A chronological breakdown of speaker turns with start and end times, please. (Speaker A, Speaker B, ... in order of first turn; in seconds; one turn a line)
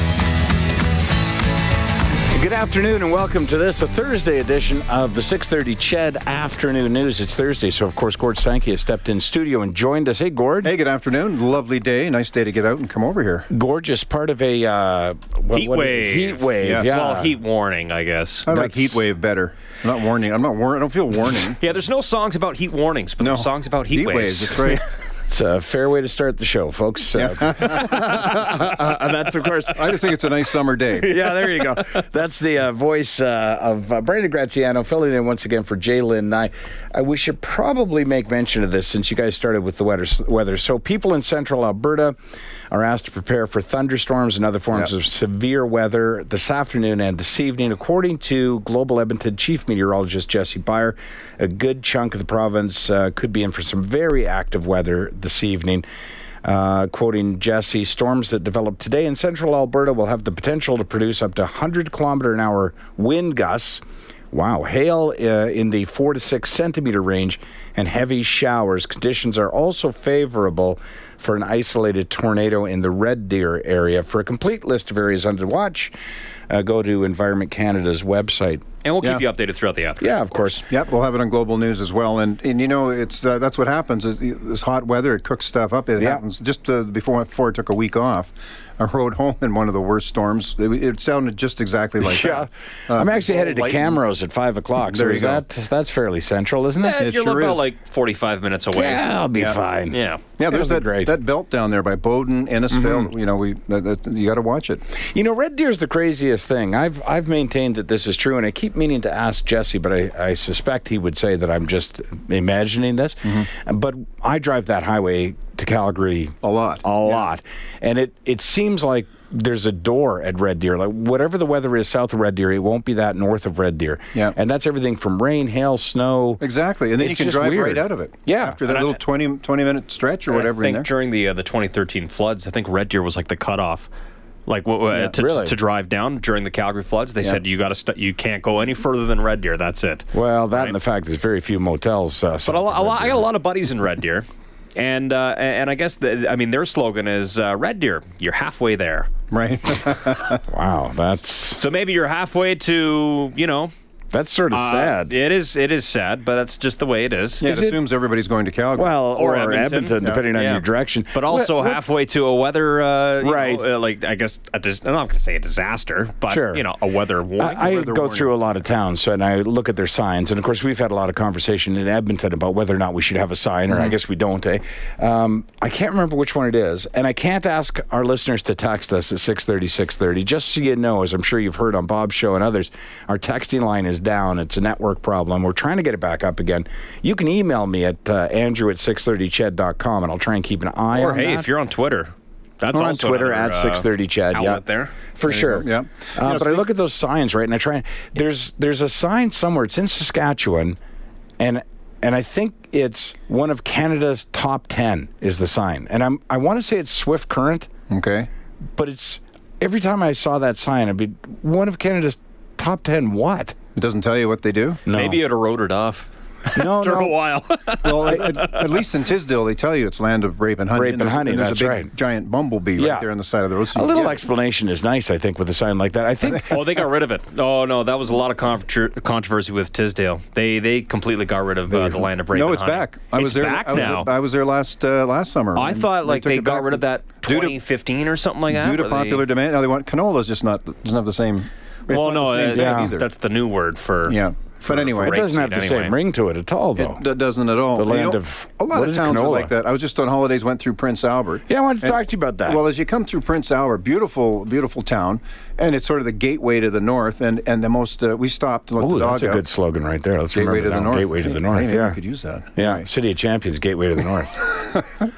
Speaker A: 2.3-10.7
Speaker B: 10.6-13.5
Speaker A: 13.5-17.4
Speaker C: 15.5-18.5
Speaker B: 16.6-16.9
Speaker B: 18.4-21.6
Speaker A: 18.5-19.1
Speaker C: 21.6-24.8
Speaker B: 23.2-24.8
Speaker A: 25.3-30.0
Speaker B: 27.1-28.0
Speaker B: 29.7-31.1
Speaker A: 31.0-42.1
Speaker C: 31.3-31.7
Speaker A: 42.7-55.9
Speaker A: 56.4-63.8
Speaker A: 64.3-75.9
Speaker A: 76.5-78.6
Speaker C: 78.8-80.6
Speaker A: 80.0-80.6
Speaker B: 80.7-94.0
Speaker A: 92.0-97.0
Speaker B: 94.8-95.4
Speaker C: 96.8-99.0
Speaker B: 97.0-97.7
Speaker A: 98.7-101.1
Speaker C: 99.9-100.2
Speaker B: 100.4-104.8
Speaker A: 102.7-103.0
Speaker A: 105.1-126.4
Speaker B: 116.4-117.2
Speaker B: 126.4-130.9
Speaker A: 127.0-128.6
Speaker C: 128.6-129.0
Speaker C: 130.3-133.9
Speaker C: 134.4-140.8
Speaker A: 134.9-135.6
Speaker A: 140.1-143.2
Speaker C: 142.4-149.1
Speaker B: 149.3-150.4
Speaker A: 150.5-151.6
Speaker C: 151.4-153.7
Speaker A: 154.1-155.1
Speaker C: 154.5-157.5
Speaker B: 157.4-158.9
Speaker A: 157.4-157.8
Speaker A: 158.7-161.8
Speaker C: 159.1-168.0
Speaker A: 163.2-163.7
Speaker A: 166.3-166.6
Speaker A: 167.4-191.5
Speaker B: 167.8-168.2
Speaker C: 190.9-194.9
Speaker A: 192.7-194.6
Speaker A: 195.1-200.8
Speaker B: 195.2-196.6
Speaker A: 201.4-207.7
Speaker B: 207.9-208.3
Speaker A: 208.8-213.5
Speaker B: 213.8-214.8
Speaker A: 214.8-215.2
Speaker C: 214.9-218.8
Speaker A: 216.5-217.2
Speaker B: 217.8-224.2
Speaker A: 220.7-221.9
Speaker A: 222.8-223.1
Speaker A: 223.7-226.6
Speaker C: 226.4-234.1
Speaker B: 231.7-237.6
Speaker C: 235.5-239.2
Speaker B: 238.5-243.1
Speaker C: 241.9-245.9
Speaker A: 242.5-242.9
Speaker B: 244.1-245.2
Speaker A: 245.0-247.0
Speaker B: 246.8-259.4
Speaker A: 247.8-249.5
Speaker A: 251.5-252.6
Speaker A: 258.8-262.0
Speaker B: 260.3-262.9
Speaker A: 262.6-264.5